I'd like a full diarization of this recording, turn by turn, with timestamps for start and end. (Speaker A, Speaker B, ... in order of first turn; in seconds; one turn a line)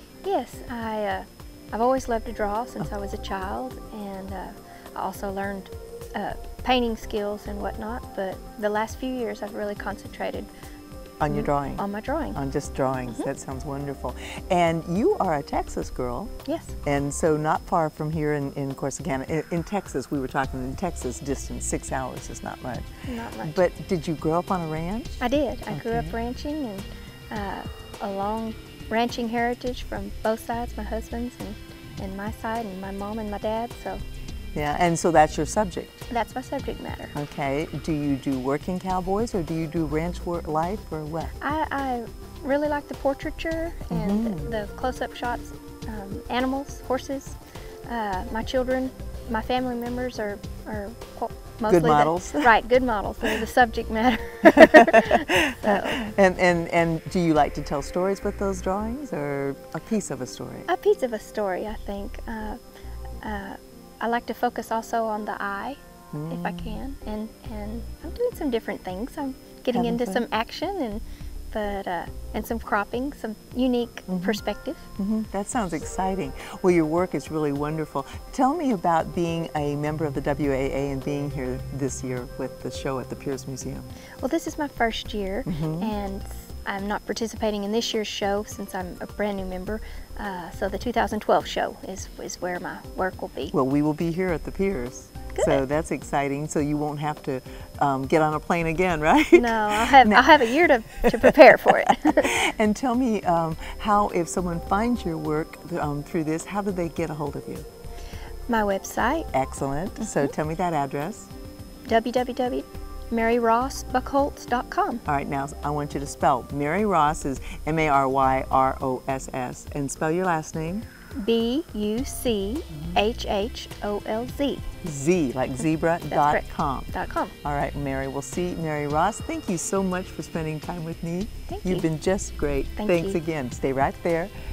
Speaker A: 0.2-10.5
Speaker B: 11.2-16.3
Speaker A: 11.3-12.4
Speaker A: 16.4-16.8
Speaker B: 16.9-22.9
Speaker A: 23.1-23.6
Speaker B: 23.4-26.1
Speaker A: 25.2-34.0
Speaker B: 34.5-36.1
Speaker A: 36.1-37.1
Speaker B: 37.1-41.3
Speaker A: 41.4-56.0
Speaker B: 43.9-44.5
Speaker B: 51.7-52.5
Speaker B: 54.4-60.7
Speaker A: 60.7-62.6
Speaker A: 63.2-74.8
Speaker B: 66.1-66.8
Speaker B: 69.7-70.2
Speaker B: 74.1-74.4
Speaker B: 75.0-83.9
Speaker A: 84.2-93.5
Speaker B: 85.5-85.9
Speaker B: 93.5-107.7
Speaker A: 95.3-95.6
Speaker A: 99.3-102.3
Speaker A: 108.5-109.3
Speaker B: 109.3-111.3
Speaker A: 111.9-115.0
Speaker B: 115.0-120.8
Speaker A: 121.2-124.7
Speaker B: 124.8-134.3
Speaker A: 126.1-127.3
Speaker A: 131.5-131.8
Speaker A: 132.8-133.2